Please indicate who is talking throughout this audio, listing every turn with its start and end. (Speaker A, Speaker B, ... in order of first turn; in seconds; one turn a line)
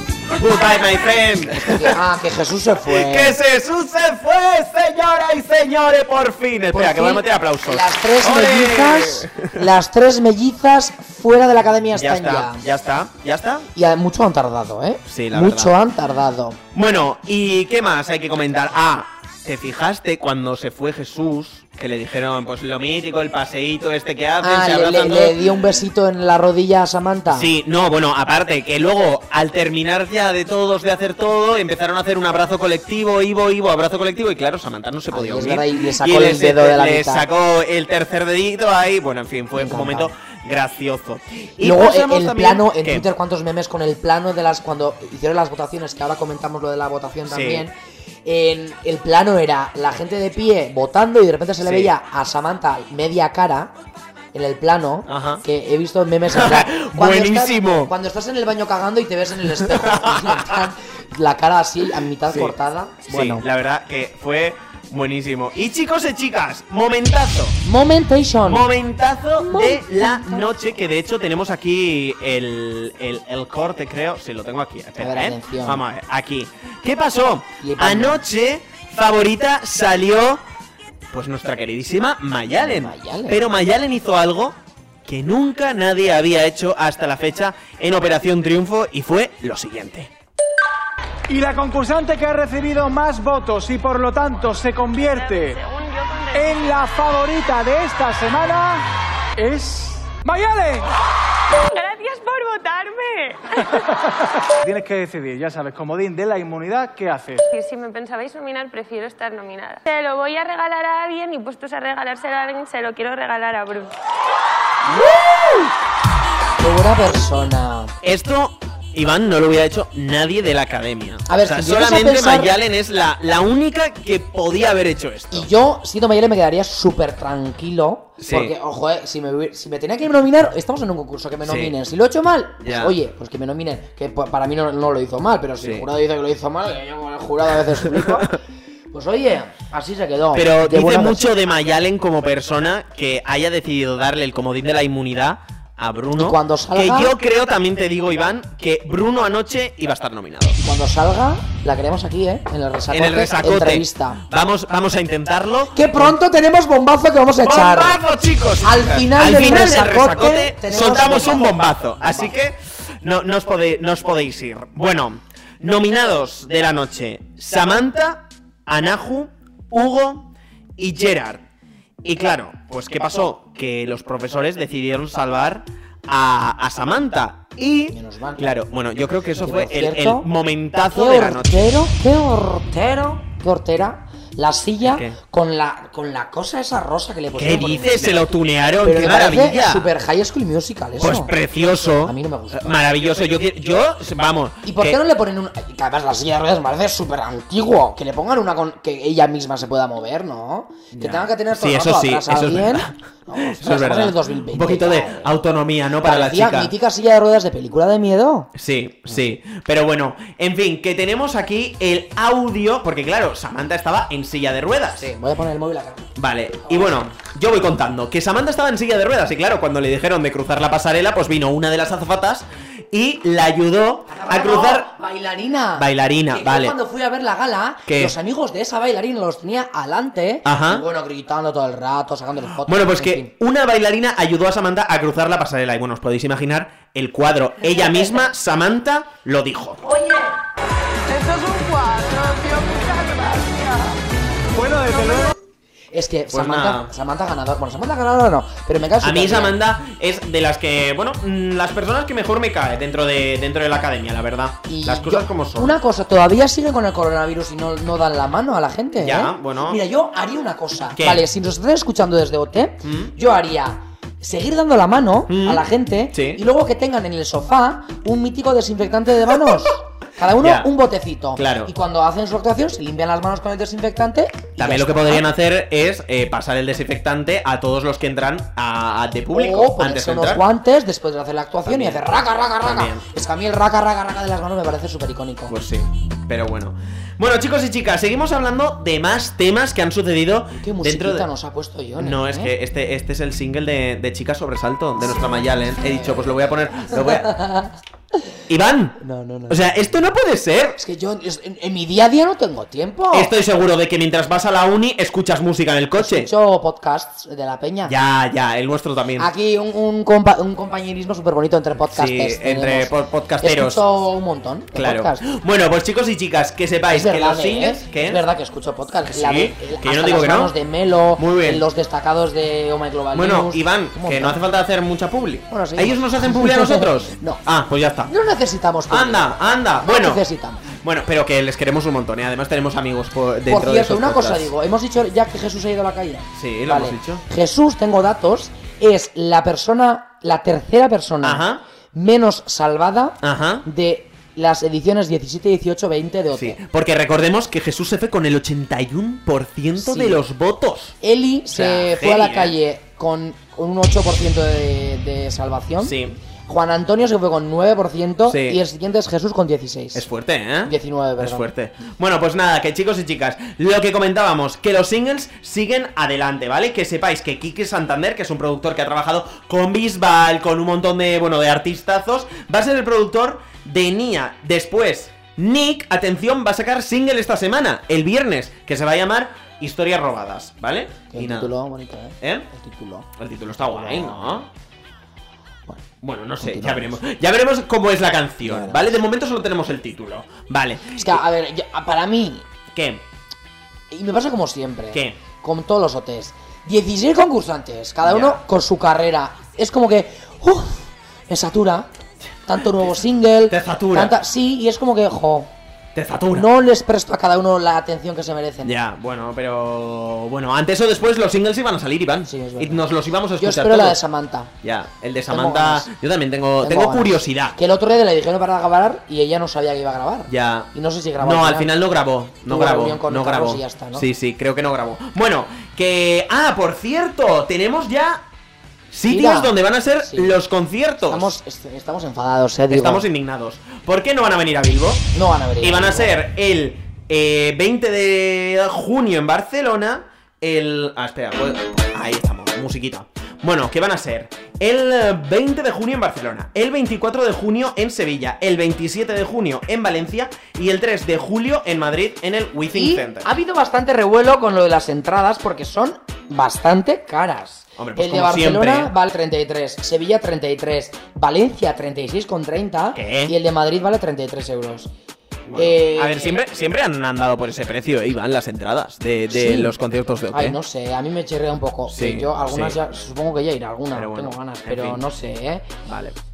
Speaker A: 0.3-2.0
Speaker B: 1.6-3.4
Speaker A: 2.8-9.7
Speaker B: 6.7-12.6
Speaker A: 11.9-13.7
Speaker B: 13.7-16.6
Speaker A: 15.1-15.8
Speaker A: 16.7-25.4
Speaker B: 24.4-27.5
Speaker A: 27.3-43.1
Speaker B: 35.1-37.2
Speaker B: 39.5-40.1
Speaker B: 41.6-47.7
Speaker A: 47.3-47.6
Speaker B: 48.2-53.7
Speaker A: 51.6-51.9
Speaker B: 54.3-63.4
Speaker A: 55.1-55.4
Speaker A: 56.3-57.9
Speaker A: 59.6-60.6
Speaker A: 62.3-62.5
Speaker A: 63.1-67.6
Speaker B: 67.6-68.7
Speaker A: 68.4-80.4
Speaker B: 69.4-70.5
Speaker B: 75.0-75.8
Speaker B: 77.6-78.2
Speaker A: 81.1-90.1
Speaker B: 82.6-83.4
Speaker C: 91.3-95.6
Speaker D: 94.9-97.0
Speaker C: 96.3-98.8
Speaker C: 99.4-100.9
Speaker D: 101.6-103.8
Speaker C: 104.6-107.5
Speaker D: 107.5-113.9
Speaker B: 116.6-117.9
Speaker A: 118.0-125.5
Speaker B: 121.3-122.6
Speaker B: 125.3-138.4
Speaker A: 128.2-128.5
Speaker A: 131.4-131.7
Speaker A: 132.6-132.9
Speaker A: 135.6-135.8
Speaker A: 137.8-138.3
Speaker B: 138.9-141.3
Speaker A: 140.3-150.6
Speaker B: 146.2-147.1
Speaker B: 150.6-154.2
Speaker A: 152.9-156.2
Speaker B: 155.7-158.0
Speaker A: 157.4-171.4
Speaker B: 158.6-162.3
Speaker A: 172.0-181.8
Speaker B: 177.9-178.6
Speaker B: 179.4-180.3
Speaker B: 180.8-188.3
Speaker A: 184.8-185.2
Speaker A: 187.3-189.9
Speaker B: 188.8-192.7
Speaker A: 191.0-195.0
Speaker B: 194.6-205.3
Speaker A: 200.9-206.7
Speaker B: 206.0-208.5
Speaker A: 208.5-215.1
Speaker B: 215.0-216.1
Speaker A: 216.2-224.9
Speaker B: 216.7-217.1
Speaker B: 224.1-233.3
Speaker A: 225.8-226.8
Speaker A: 227.9-228.1
Speaker A: 230.4-230.8
Speaker A: 232.6-239.8
Speaker C: 244.5-245.3
Speaker B: 245.9-249.6
Speaker A: 246.3-246.9
Speaker A: 249.0-255.8
Speaker B: 254.7-275.2
Speaker A: 259.0-259.8
Speaker A: 260.9-261.2
Speaker A: 262.8-263.1
Speaker A: 265.3-266.4
Speaker A: 270.4-270.7
Speaker A: 271.4-271.7
Speaker A: 274.6-280.4
Speaker B: 279.3-285.6
Speaker A: 281.6-282.1
Speaker A: 282.6-283.0
Speaker A: 285.5-291.3
Speaker B: 290.5-292.5
Speaker A: 292.0-297.4
Speaker B: 295.8-297.8
Speaker A: 298.5-300.8
Speaker B: 299.0-299.6
Speaker B: 300.8-303.3
Speaker A: 303.1-306.3
Speaker B: 306.0-307.9
Speaker A: 307.9-309.3
Speaker B: 309.2-315.2
Speaker A: 311.9-313.8
Speaker A: 314.7-318.2
Speaker B: 316.9-324.4
Speaker A: 319.1-320.5
Speaker A: 321.1-321.6
Speaker A: 323.1-328.1
Speaker B: 325.5-327.4
Speaker B: 328.1-330.7
Speaker A: 328.9-330.2
Speaker A: 330.7-334.5
Speaker B: 333.5-346.6
Speaker A: 336.3-337.2
Speaker A: 341.2-341.6
Speaker A: 343.2-343.6
Speaker A: 346.3-350.9
Speaker B: 349.8-350.2
Speaker B: 351.0-355.9
Speaker A: 351.5-352.5
Speaker A: 355.8-356.2
Speaker B: 356.5-360.0
Speaker A: 358.2-358.6
Speaker A: 359.9-381.5
Speaker B: 360.6-361.5
Speaker B: 381.1-383.1
Speaker A: 382.2-382.5
Speaker A: 383.2-384.5
Speaker B: 383.6-384.3
Speaker A: 386.0-391.2
Speaker B: 386.4-387.0
Speaker B: 388.4-388.9
Speaker B: 390.9-392.4
Speaker A: 392.7-393.0
Speaker B: 393.9-401.9
Speaker A: 394.9-395.2
Speaker A: 398.0-398.4
Speaker B: 402.5-405.5
Speaker A: 403.5-404.1
Speaker A: 405.9-406.5
Speaker B: 406.3-408.7
Speaker A: 408.6-414.0
Speaker B: 412.2-414.5
Speaker A: 414.6-417.6
Speaker B: 415.3-415.9
Speaker B: 416.6-421.7
Speaker A: 420.3-428.2
Speaker B: 422.4-424.0
Speaker A: 428.9-431.3
Speaker B: 429.1-430.4
Speaker B: 431.1-433.1
Speaker A: 432.7-435.1
Speaker B: 435.1-436.2
Speaker A: 435.6-453.3
Speaker B: 452.7-464.9
Speaker A: 457.8-458.9
Speaker A: 462.9-463.3
Speaker A: 465.4-470.6
Speaker B: 465.5-466.4
Speaker B: 469.3-469.7
Speaker B: 470.3-475.7
Speaker A: 471.9-472.8
Speaker A: 473.9-475.0
Speaker A: 475.9-476.1